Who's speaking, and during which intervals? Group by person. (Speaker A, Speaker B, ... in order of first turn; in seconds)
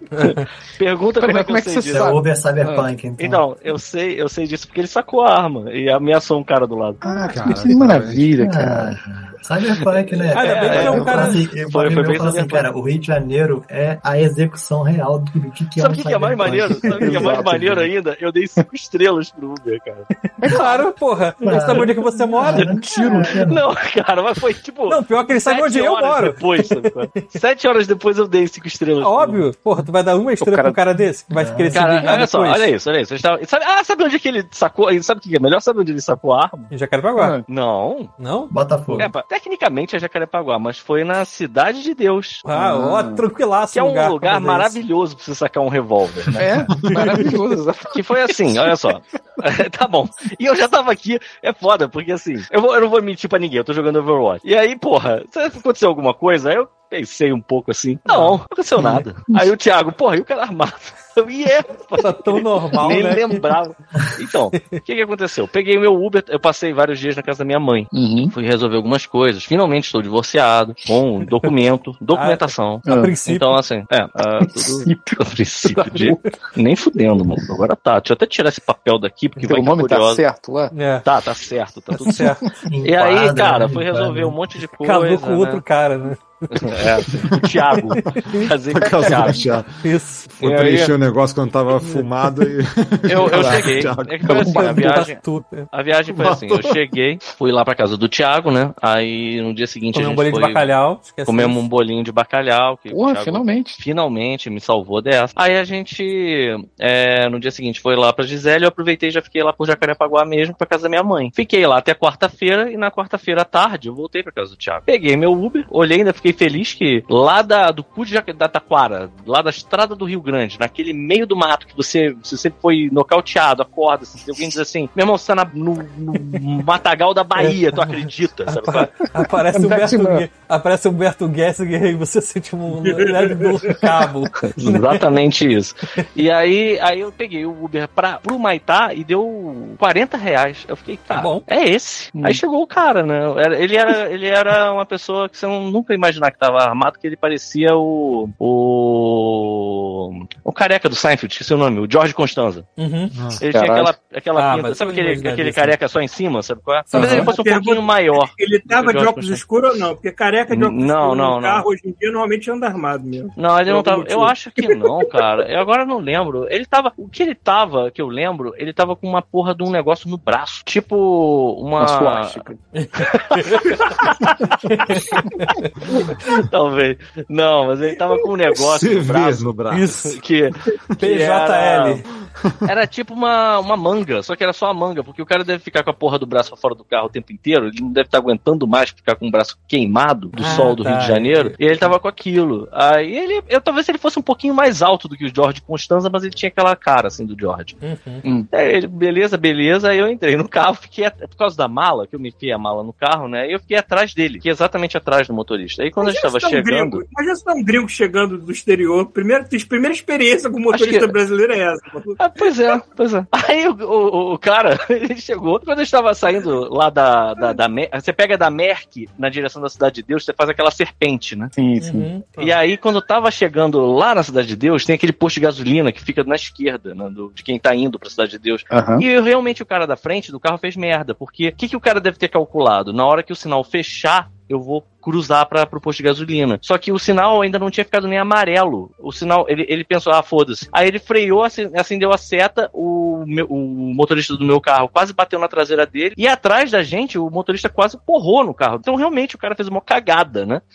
Speaker A: 0.1-0.5, 10.3-11.4, 20.4-23.1, 24.9-27.3, 29.0-32.7, 36.7-37.4, 38.2-38.5, 42.4-44.8, 46.9-47.2, 58.1-58.4, 62.0-63.4, 72.1-73.6, 80.7-81.0, 81.9-82.5, 84.8-86.8, 87.9-88.5, 89.8-90.6, 94.4-95.7, 99.9-101.6, 127.4-135.0, 141.1-141.4, 152.8-153.2, 154.3-155.7, 172.8-173.8, 174.6-176.4, 179.7-180.2, 181.0-182.1, 190.3-191.6, 197.8-198.2, 221.8-222.6
Speaker B: 0.2-2.1, 3.2-7.0, 10.0-12.7, 15.8-20.7, 22.5-29.4, 31.7-36.7, 37.5-38.1, 38.9-42.4, 43.7-46.5, 47.9-80.2, 81.0-82.3, 82.8-85.6, 86.5-89.4, 93.1-100.7, 101.2-128.9, 134.6-152.7, 153.4-159.4, 160.5-161.7, 163.4-172.4, 173.0-174.6, 176.3-179.4, 180.1-182.0, 182.6-197.8, 198.5-207.0, 210.7-211.1, 212.2-221.5, 222.4-250.6
Speaker C: 1.2-2.9, 7.0-8.9, 10.7-11.3, 17.0-17.9, 22.9-23.2, 30.4-30.8, 37.2-37.4, 42.5-43.2, 46.4-48.9, 58.8-59.4, 67.9-68.3, 72.8-73.2, 74.4-76.2, 79.4-80.7, 82.1-82.5, 88.8-89.4, 90.4-90.9, 93.3-95.0, 102.9-103.8, 129.2-130.2, 142.2-142.4, 153.5-153.9, 156.9-157.3, 171.8-172.6, 198.2-198.5, 221.6-222.1, 228.7-229.1
Speaker D: 1.9-3.4, 8.3-17.4, 21.4-23.6, 31.3-31.8, 38.5-39.1, 82.7-84.4
Speaker E: 7.3-8.2, 88.0-89.8, 90.3-94.4, 96.2-96.7, 153.1-153.4, 178.6-180.0, 182.4-182.7
Speaker F: 132.8-133.8, 157.0-164.8, 206.0-212.2